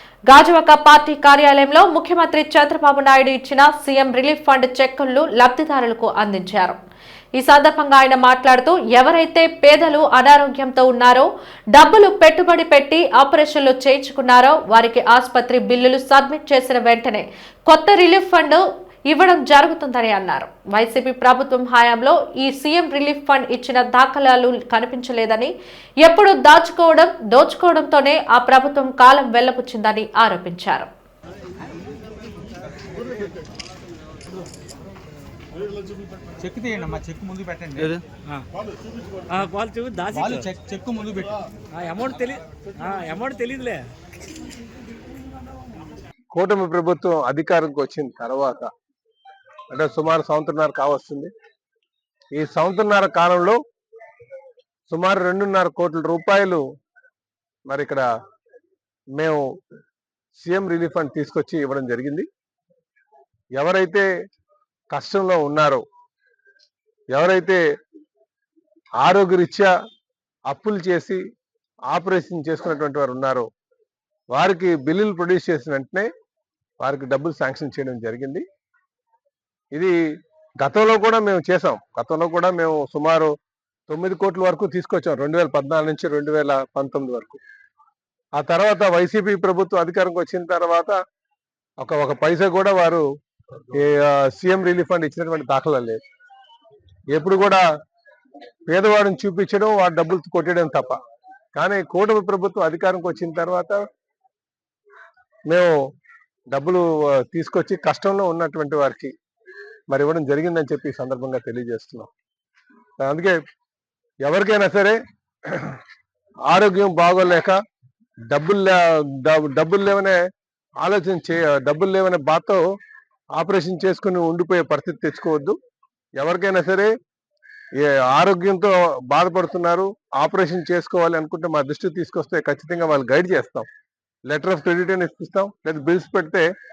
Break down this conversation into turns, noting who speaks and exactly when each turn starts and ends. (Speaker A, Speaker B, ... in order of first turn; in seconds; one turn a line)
Speaker A: 0.3-6.8
Speaker A: 7.3-30.9
Speaker B: 36.4-38.0
Speaker C: 39.3-40.5
Speaker B: 40.1-41.4
Speaker C: 41.7-43.8
Speaker D: 46.3-48.7
Speaker D: 49.7-51.3
Speaker D: 52.3-53.6
Speaker D: 54.9-56.6
Speaker D: 57.7-58.0
Speaker D: 59.1-59.4
Speaker D: 60.3-62.3
Speaker D: 63.6-64.1
Speaker D: 64.9-65.8
Speaker D: 67.1-67.6
Speaker D: 69.0-69.7
Speaker D: 70.5-71.2
Speaker D: 71.9-73.5
Speaker D: 74.3-76.1
Speaker D: 76.8-78.4
Speaker D: 80.6-83.3
Speaker D: 83.9-87.4
Speaker D: 88.4-91.0
Speaker D: 91.8-93.0
Speaker D: 93.7-96.0
Speaker D: 97.1-97.6
Speaker D: 98.7-101.0
Speaker D: 101.5-103.8
Speaker D: 105.5-105.7
Speaker D: 106.5-109.1
Speaker D: 109.9-112.1
Speaker D: 113.0-113.4
Speaker D: 114.2-115.0
Speaker D: 115.5-115.8
Speaker D: 116.5-117.5
Speaker D: 118.3-120.2
Speaker D: 120.8-122.6
Speaker D: 123.4-125.6
Speaker D: 126.2-126.9
Speaker D: 127.8-133.7
Speaker D: 134.3-136.5